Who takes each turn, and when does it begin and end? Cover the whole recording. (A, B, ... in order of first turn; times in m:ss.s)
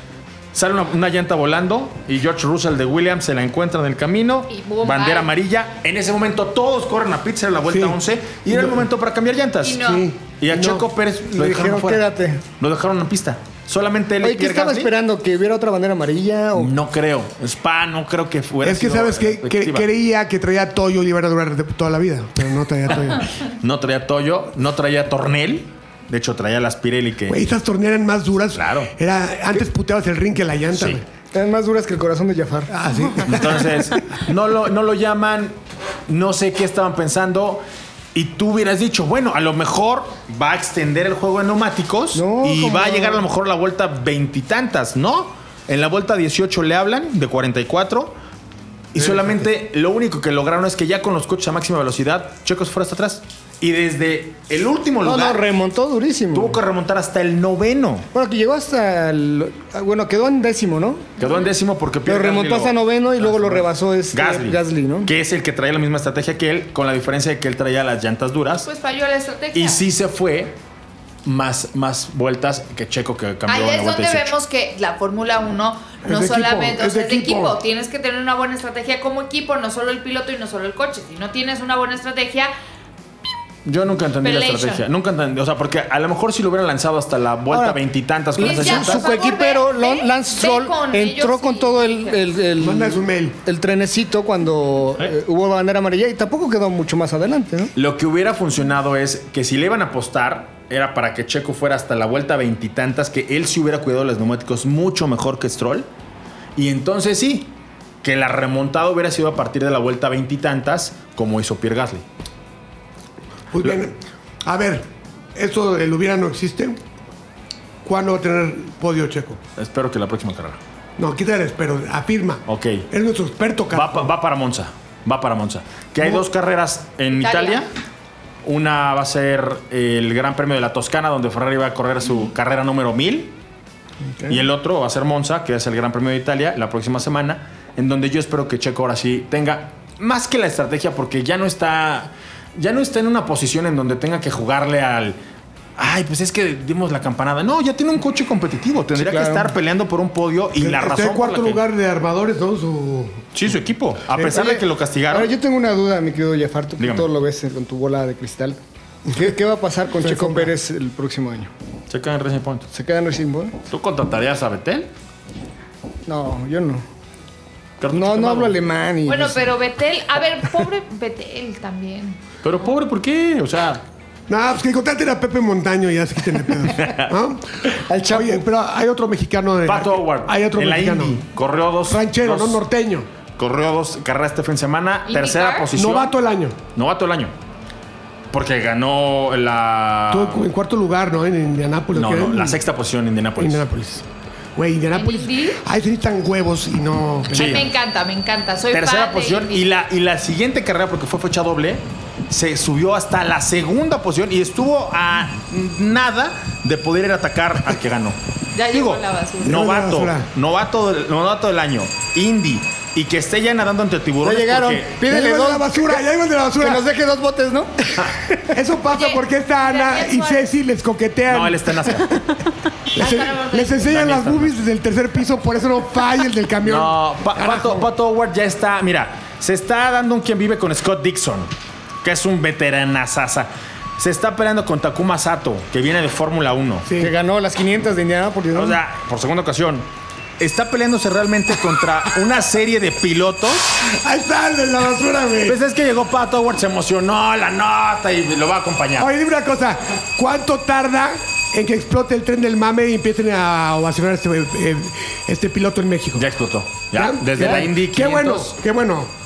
0:00.5-0:14.9 A
0:04.5-0:05.3 B
0:07.7-0:08.9 C
0:09.6-0:10.1 B
0:09.7-0:10.9 C
0:11.3-0:12.4 D
0:14.2-0:16.7 D
0:16.6-0:19.9 A
0:18.6-0:23.3 C
0:23.6-0:27.4 A
0:27.3-0:31.0 C
0:28.6-0:28.9 A
0:30.7-0:31.0 A
0:31.3-0:32.7 D
0:32.7-0:33.7 C
0:33.3-0:35.6 A
0:36.1-0:37.6 A
0:38.1-0:48.1 A
0:42.1-0:43.2 D
0:48.9-0:55.4 A
0:49.0-0:49.5 C
0:55.0-0:56.6 D
0:56.3-0:58.1 A
0:58.1-1:01.1 D
1:01.2-1:08.7 A
1:02.0-1:05.1 D
1:08.6-1:09.8 B
1:09.5-1:10.6 A
1:11.2-1:14.3 A
1:13.4-1:22.5 B
1:16.0-1:17.6 C
1:23.6-1:29.1 A
1:24.2-1:24.8 B
1:27.5-1:27.8 D
1:28.4-1:37.7 D
1:28.4-1:32.2 B
1:32.6-1:33.4 C
1:37.8-1:45.9 A
1:46.6-1:52.0 A
1:53.5-1:56.8 C
1:57.8-1:59.4 C
1:59.6-2:00.6 A
2:01.0-2:04.1 C
2:02.5-2:02.9 A
2:03.7-2:07.7 A
2:06.0-2:06.3 C
2:07.1-2:07.6 B
2:08.4-2:13.3 A
2:14.3-2:25.2 A
2:25.8-2:31.6 A
2:29.0-2:29.6 D
2:30.6-2:33.3 C
2:33.3-2:35.3 A
2:34.1-2:34.6 C
2:35.1-2:41.5 D
2:36.8-2:37.1 A
2:40.2-2:40.5 C
2:41.9-2:42.7 A
2:42.7-2:43.6 D
2:43.7-2:44.9 A
2:46.0-2:46.8 D
2:47.8-2:48.6 A
2:47.9-2:49.5 D
2:49.1-2:52.2 B
2:52.4-2:53.8 A
2:54.3-3:01.2 C
2:56.7-2:57.1 A
2:57.8-2:58.4 D
2:59.6-3:02.6 A
3:01.8-3:03.1 C
3:03.4-3:06.2 A
3:05.1-3:05.7 B
3:05.7-3:06.6 C
3:06.7-3:07.3 A
3:08.3-3:10.5 A
3:10.1-3:12.6 C
3:11.9-3:13.6 A
3:13.4-3:17.7 C
3:14.9-3:15.6 B
3:17.3-3:19.7 B
3:17.3-3:17.6 A
3:18.7-3:28.2 A
3:28.5-3:29.6 B
3:28.7-3:35.0 A
3:29.4-3:30.3 C
3:34.2-3:36.0 D
3:35.0-3:36.9 C
3:36.6-3:38.4 D
3:38.5-3:41.8 C
3:38.9-3:40.5 B
3:41.3-3:42.2 A
3:42.9-3:47.9 C
3:43.0-3:43.9 B
3:43.7-3:44.6 A
3:46.6-3:51.5 A
3:52.0-3:56.9 A
3:56.8-3:57.1 C
3:57.0-3:58.8 D
3:58.5-3:59.9 A
4:00.4-4:03.8 A
4:03.9-4:05.6 C
4:05.4-4:09.1 A
4:09.0-4:16.3 C
4:16.2-4:18.6 A
4:16.9-4:19.1 C
4:17.4-4:17.6 D